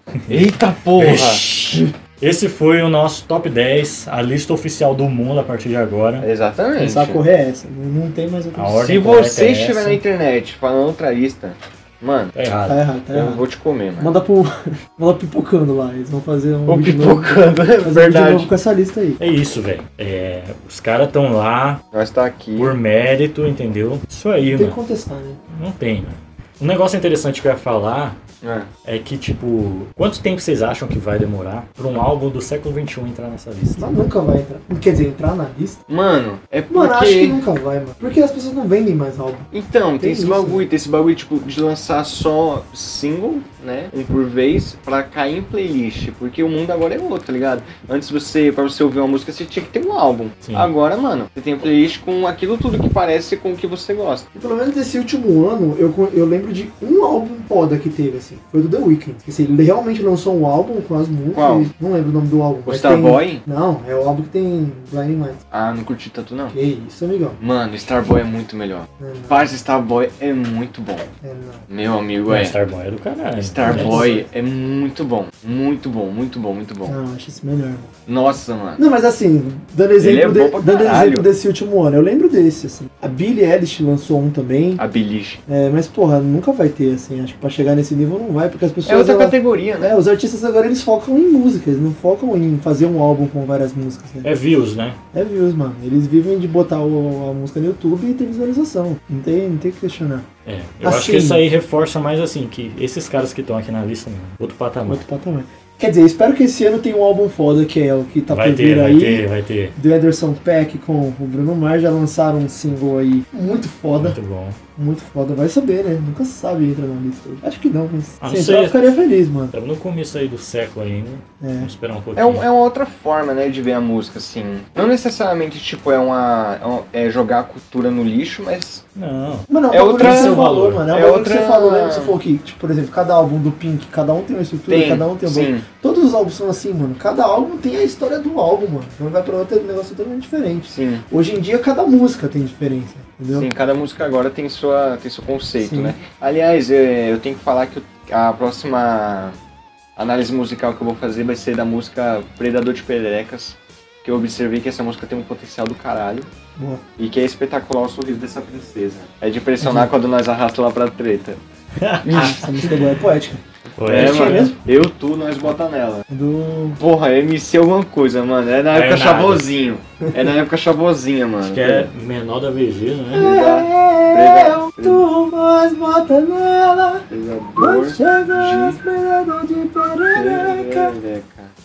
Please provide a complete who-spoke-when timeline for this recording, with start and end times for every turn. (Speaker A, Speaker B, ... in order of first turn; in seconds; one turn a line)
Speaker A: 0.3-6.3
Speaker B: 0.3-1.8
Speaker B: 6.2-7.2
Speaker C: 6.8-8.9
Speaker A: 8.5-10.0
Speaker B: 8.8-12.3
Speaker A: 12.3-12.8
Speaker C: 12.7-13.4
Speaker B: 13.1-14.1
Speaker C: 14.0-19.2
Speaker B: 16.7-18.5
Speaker A: 19.2-21.8
Speaker B: 21.9-22.7
Speaker A: 22.6-24.8
Speaker C: 24.5-25.4
Speaker A: 25.5-28.2
Speaker B: 28.4-28.7
Speaker A: 28.8-34.0
Speaker C: 33.8-35.8
Speaker B: 35.9-37.4
Speaker C: 36.7-40.6
Speaker B: 39.5-54.2
Speaker A: 50.4-50.7
Speaker C: 54.4-65.4
Speaker B: 61.3-61.7
Speaker B: 62.7-63.4
Speaker B: 65.5-66.5
Speaker C: 66.5-67.4
Speaker B: 67.4-71.1
Speaker C: 69.0-69.5
Speaker C: 71.2-71.6
Speaker B: 71.7-72.5
Speaker A: 72.3-74.1
Speaker B: 73.3-76.9
Speaker C: 73.6-74.3
Speaker C: 76.9-77.9
Speaker B: 78.1-78.8
Speaker C: 78.8-84.8
Speaker B: 80.0-81.3
Speaker B: 84.8-85.4
Speaker C: 85.5-94.3
Speaker B: 88.8-89.9
Speaker A: 94.2-95.0
Speaker C: 95.1-100.2
Speaker A: 100.5-105.0
Speaker C: 100.8-101.5
Speaker C: 104.8-114.2
Speaker A: 108.3-109.8
Speaker A: 113.9-114.6
Speaker C: 114.8-119.5
Speaker A: 118.2-122.5
Speaker C: 121.4-121.7
Speaker B: 122.1-128.8
Speaker A: 128.9-130.9
Speaker C: 129.5-143.5
Speaker B: 129.7-132.2
Speaker B: 134.7-135.6
Speaker B: 140.7-141.0
Speaker B: 143.3-149.3
Speaker C: 145.6-145.9
Speaker B: 150.0-156.3
Speaker C: 156.6-156.8
Speaker B: 157.0-161.4
Speaker C: 159.6-159.9
Speaker A: 161.8-162.7
Speaker B: 162.0-162.4
Speaker C: 162.1-164.6
Speaker A: 163.8-164.5
Speaker B: 163.8-166.1
Speaker C: 166.1-166.8
Speaker B: 166.8-171.9
Speaker A: 168.7-169.5
Speaker A: 171.4-173.3
Speaker B: 173.1-175.0
Speaker C: 173.1-180.9
Speaker B: 177.1-178.8
Speaker B: 180.1-181.5